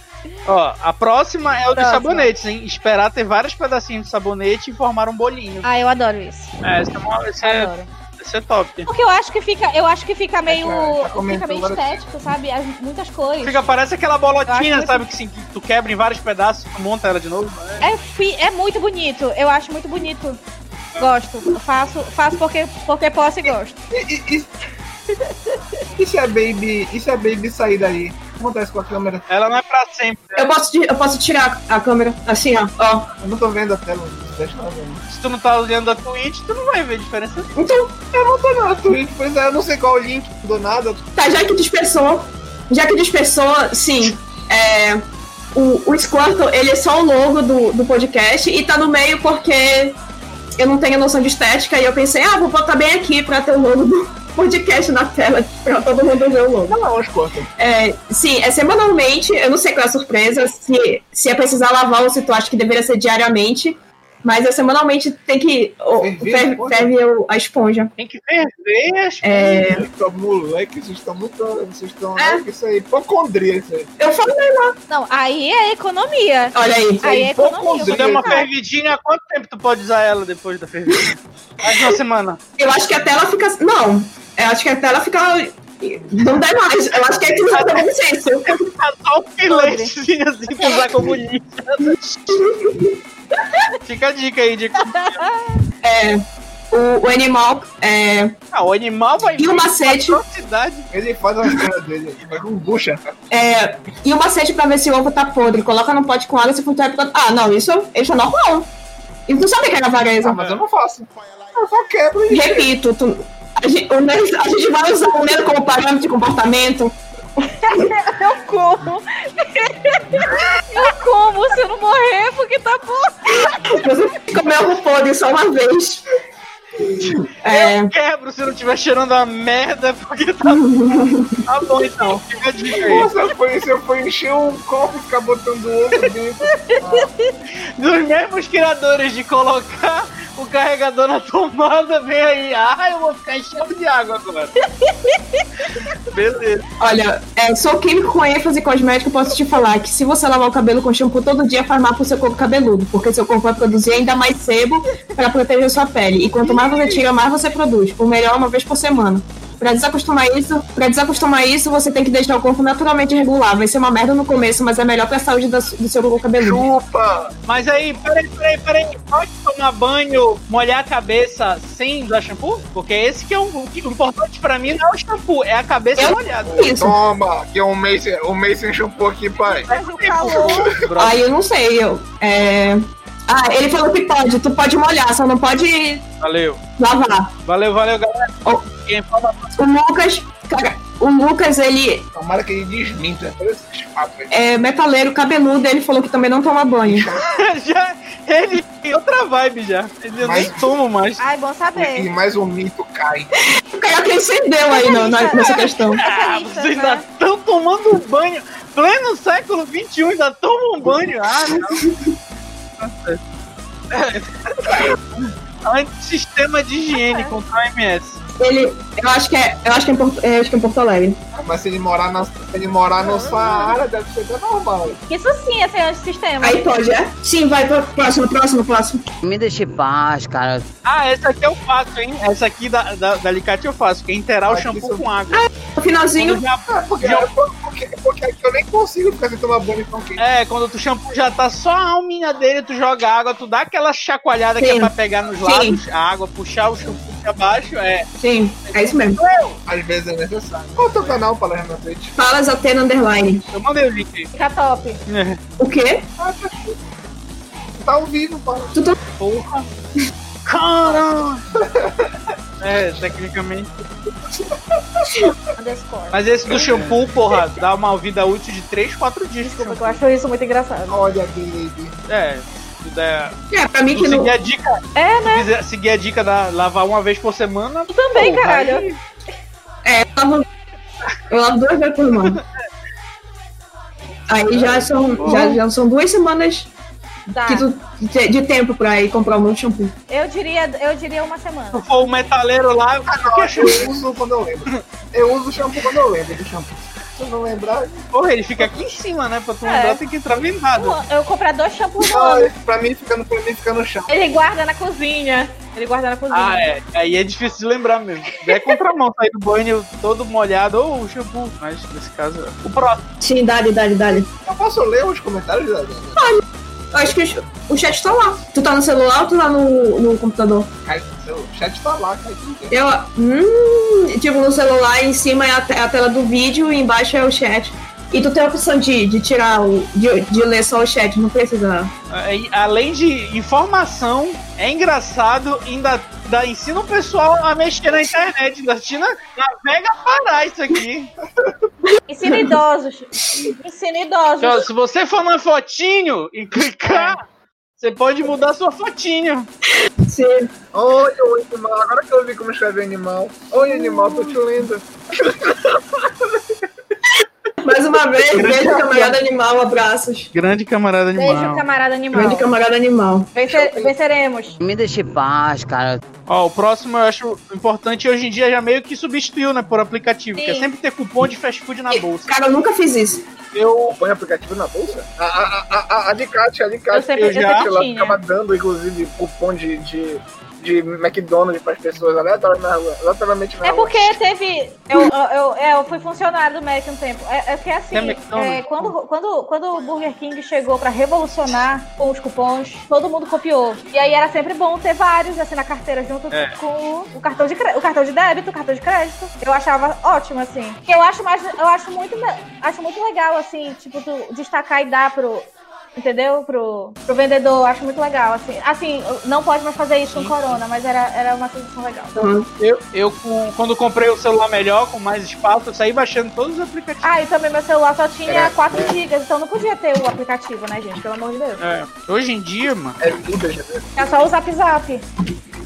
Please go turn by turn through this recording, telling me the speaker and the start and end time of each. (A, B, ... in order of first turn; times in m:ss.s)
0:00.4-0:05.6 A
0:01.7-0:02.3 B
0:05.6-0:06.5 B
0:06.6-0:08.9 A
0:07.4-0:07.9 B
0:08.9-0:13.6 B
0:10.5-0:12.0 C
0:13.4-0:17.8 A
0:14.5-0:15.0 B
0:17.8-0:20.4 B
0:21.0-0:23.8 B
0:23.9-0:24.6 C
0:25.9-0:29.2 C
0:29.3-0:30.5 A
0:30.4-0:33.1 D
0:33.2-0:35.0 C
0:35.1-0:37.5 A
0:37.6-0:37.9 D
0:38.0-0:41.0 C
0:41.2-0:45.0 D
0:45.5-0:50.0 D
0:50.6-0:56.8 D
0:56.6-0:57.5 C
0:57.6-1:07.9 D
1:06.0-1:06.9 C
1:08.0-1:09.6 A
1:09.2-1:09.8 D
1:09.6-1:13.9 C
1:12.2-1:12.4 D
1:14.0-1:14.8 D
1:14.9-1:18.5 B
1:16.5-1:17.2 D
1:17.0-1:18.4 C
1:17.8-1:22.4 A
1:22.6-1:28.6 D
1:27.5-1:27.8 A
1:28.4-1:32.5 A
1:29.5-1:29.9 B
1:32.3-1:33.0 D
1:33.8-1:35.2 A
1:34.8-1:35.6 B
1:35.8-1:38.4 D
1:38.5-1:40.9 A
1:39.4-1:40.2 D
1:40.9-1:43.2 C
1:43.3-1:48.7 D
1:49.3-1:50.4 D
1:50.2-1:52.7 C
1:52.3-1:57.4 D
1:57.5-2:03.9 B
2:03.5-2:06.0 D
2:07.4-2:07.9 D
2:07.5-2:13.1 A
2:10.4-2:11.4 D
2:12.8-2:17.1 C
2:16.6-2:17.3 B
2:17.8-2:24.5 A
2:24.8-2:25.5 B
2:26.0-2:26.6 A
2:26.8-2:46.6 D
2:36.2-2:37.0 C
2:46.4-2:47.3 C
2:47.5-2:56.7 A
2:56.0-2:56.9 D
2:56.5-3:00.8 C
2:59.4-3:00.7 B
2:59.6-3:01.2 A
3:01.0-3:06.0 D
3:06.2-3:06.6 A
3:06.8-3:07.3 D
3:07.4-3:09.5 A
3:09.6-3:12.0 D
3:12.1-3:14.3 C
3:14.3-3:17.0 D
3:16.8-3:17.3 C
3:17.2-3:21.2 A
3:20.2-3:20.7 C
3:21.2-3:22.1 B
3:21.7-3:23.3 C
3:23.7-3:26.0 D
3:24.7-3:27.0 B
3:26.0-3:31.8 A
3:32.8-3:33.2 A
3:33.9-3:38.2 A
3:36.9-3:37.4 B
3:38.4-3:41.2 D
3:41.4-3:45.0 C
3:43.0-3:43.8 B
3:45.1-3:46.8 B
3:46.4-3:49.0 D
3:49.2-3:50.6 E
3:50.8-3:55.5 A
3:54.5-3:55.1 C
3:55.3-3:56.4 D
3:56.2-3:57.3 A
3:56.7-4:00.2 C
4:00.2-4:08.1 A
4:04.6-4:04.9 D
4:05.4-4:05.8 D
4:08.2-4:09.2 D
4:08.7-4:09.6 A
4:09.7-4:12.2 C
4:10.5-4:10.8 A
4:12.2-4:13.4 D
4:13.5-4:14.3 A
4:14.3-4:15.0 B
4:15.1-4:15.4 A
4:15.6-4:16.0 D
4:16.2-4:16.8 C
4:17.8-4:18.8 C
4:19.2-4:19.7 A
4:20.4-4:21.5 A
4:21.5-4:22.1 C
4:22.6-4:23.7 A
4:25.6-4:26.2 B
4:26.1-4:30.0 A
4:26.5-4:26.9 C
4:29.4-4:31.0 B
4:30.9-4:31.9 C
4:32.1-4:33.4 A
4:33.5-4:34.3 D
4:33.9-4:39.0 A
4:35.0-4:35.5 B
4:37.9-4:38.9 B
4:39.8-4:40.4 D
4:41.3-4:42.4 D
4:42.2-4:42.4 A
4:44.3-4:46.7 D
4:44.6-4:44.8 C
4:44.6-4:45.6 A
4:47.3-4:47.6 B
4:47.5-4:49.9 D
4:50.1-4:51.8 B
4:51.7-4:53.9 A
4:53.1-4:58.0 C
4:58.1-5:01.0 A
4:59.6-5:00.0 B
5:00.8-5:02.5 B
5:02.0-5:04.2 C
5:04.1-5:06.7 B
5:06.3-5:13.0 A
5:13.2-5:14.3 D
5:14.4-5:16.3 C
5:16.2-5:20.7 D
5:20.8-5:22.7 C
5:22.7-5:31.9 D
5:32.1-5:41.1 A
5:42.1-5:44.7 B
5:42.3-5:42.6 D
5:44.4-5:47.2 A
5:46.8-5:47.2 B
5:47.8-5:49.5 A
5:50.0-5:50.5 D
5:50.7-5:56.4 C
5:57.6-6:00.3 D
5:58.3-5:59.2 A
6:00.3-6:01.6 A
6:01.2-6:02.5 B
6:02.1-6:03.9 D
6:03.3-6:04.6 B
6:04.6-6:06.0 E
6:06.3-6:12.3 A
6:10.4-6:10.7 B
6:11.9-6:13.2 D
6:13.5-6:14.0 A
6:13.9-6:24.2 C
6:16.9-6:18.2 B
6:17.2-6:17.7 A
6:23.6-6:52.1 B
6:27.9-6:28.9 A
6:36.3-6:36.6 A
6:50.0-6:50.6 A
6:52.2-6:52.5 D
6:52.6-6:57.1 A
6:57.0-7:01.6 B
6:58.3-6:59.0 C
7:01.6-7:03.0 A
7:03.0-7:04.0 C
7:04.0-7:05.0 B